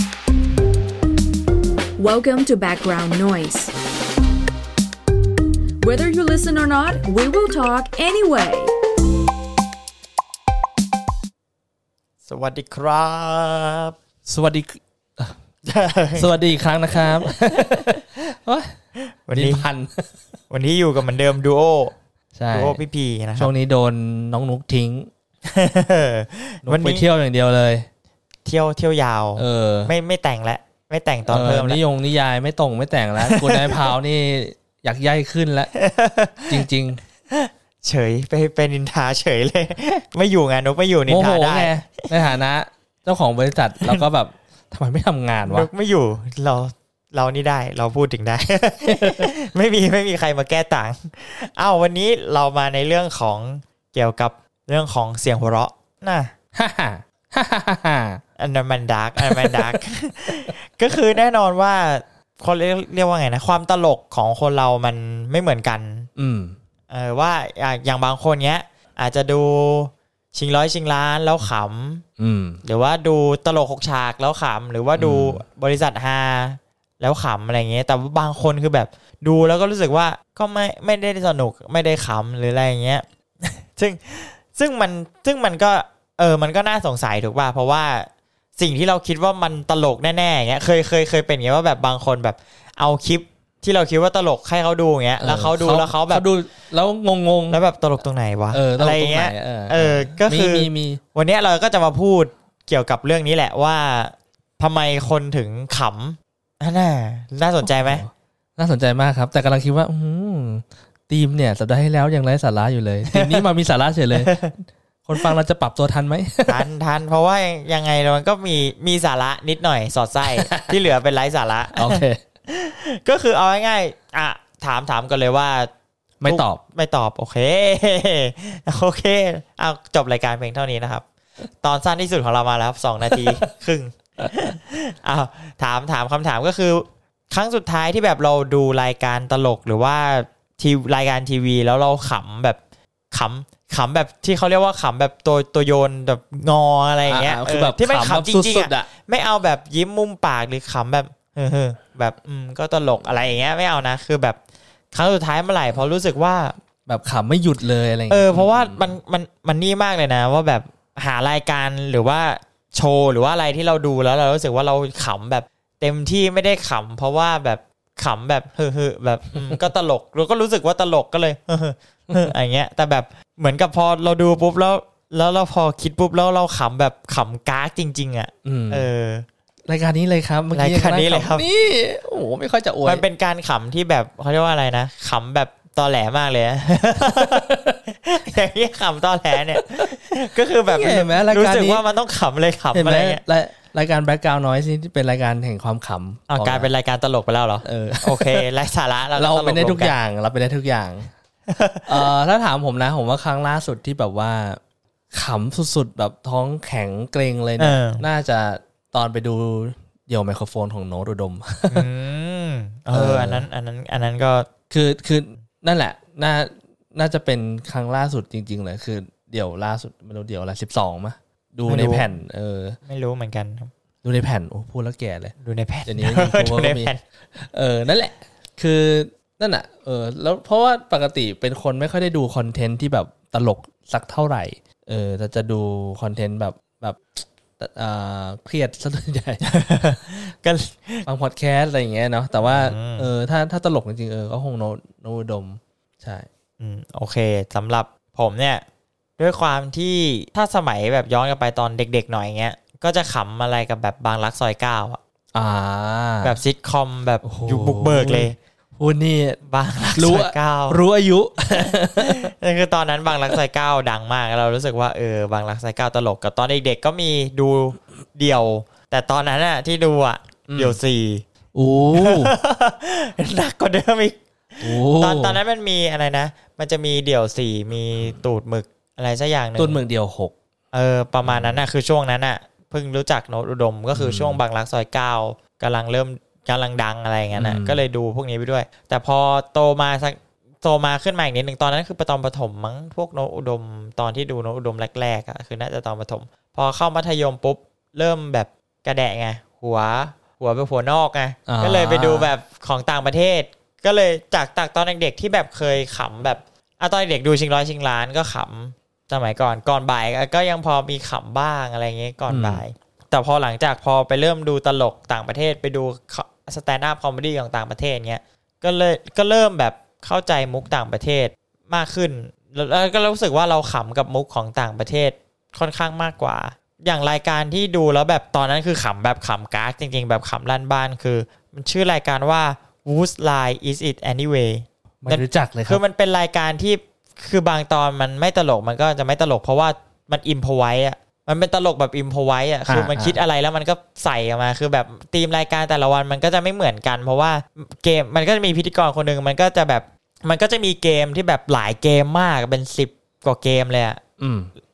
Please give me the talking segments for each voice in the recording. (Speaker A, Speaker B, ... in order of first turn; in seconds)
Speaker A: 2.0-3.7, 5.8-8.7
Speaker B: 12.3-13.9, 15.6-16.3, 17.2-18.0, 19.0-19.6, 20.5-21.9, 22.5-23.5, 25.5-27.0, 28.4-31.8, 33.2-33.9, 35.8-36.6, 37.3-42.1, 45.5-56.3, 58.4-66.1, 66.9-72.0, 72.6-96.2, 97.5-108.0, 113.1-113.5, 114.1-114.5, 116.5-125.7, 126.2-131.1, 131.6-142.6, 143.1-154.4, 154.9-156.5, 158.1-179.3, 180.5-181.4, 182.8-187.5, 188.0-193.2, 196.3-199.9, 201.5-202.1, 207.6-208.0, 211.7-214.5, 221.7-222.1, 222.9-223.7, 225.4-227.0, 239.4-241.1, 242.4-243.1, 246.6-248.6, 249.2-255.0, 256.2-258.4, 259.5-260.8, 261.7-271.2, 271.9-279.8, 280.7-354.0
Speaker C: 14.3-15.3, 16.2-18.8, 19.3-20.2, 22.4-22.8, 23.4-25.1, 26.6-27.9, 29.4-29.9, 31.3-35.7, 36.5-37.0, 41.1-45.7, 48.9-49.3, 56.5-58.2, 59.2-59.8, 66.2-66.6, 72.2-72.6, 75.0-75.4, 95.2-97.6, 98.5-101.0, 107.6-114.5, 115.1-116.7, 120.3-120.8, 121.7-122.2, 126.2-126.6, 133.1-133.4, 147.1-148.9, 156.9-158.8, 178.4-178.9, 179.7-183.1, 187.1-187.8, 190.7-191.8, 192.7-196.7, 197.6-198.5, 199.2-201.1, 201.9-204.6, 205.1-211.9, 212.9-213.5, 214.7-222.8, 224.0-225.3, 225.9-239.4, 241.1-246.3, 255.3-256.4, 257.2-259.4, 260.0-262.3, 270.5-270.8, 271.5-272.3, 274.6-275.4, 279.6-280.3, 281.2-281.6, 283.9-284.4, 287.4-287.8, 301.5-302.3, 312.3-312.6, 335.0-335.8, 342.7-343.2, 354.2-354.5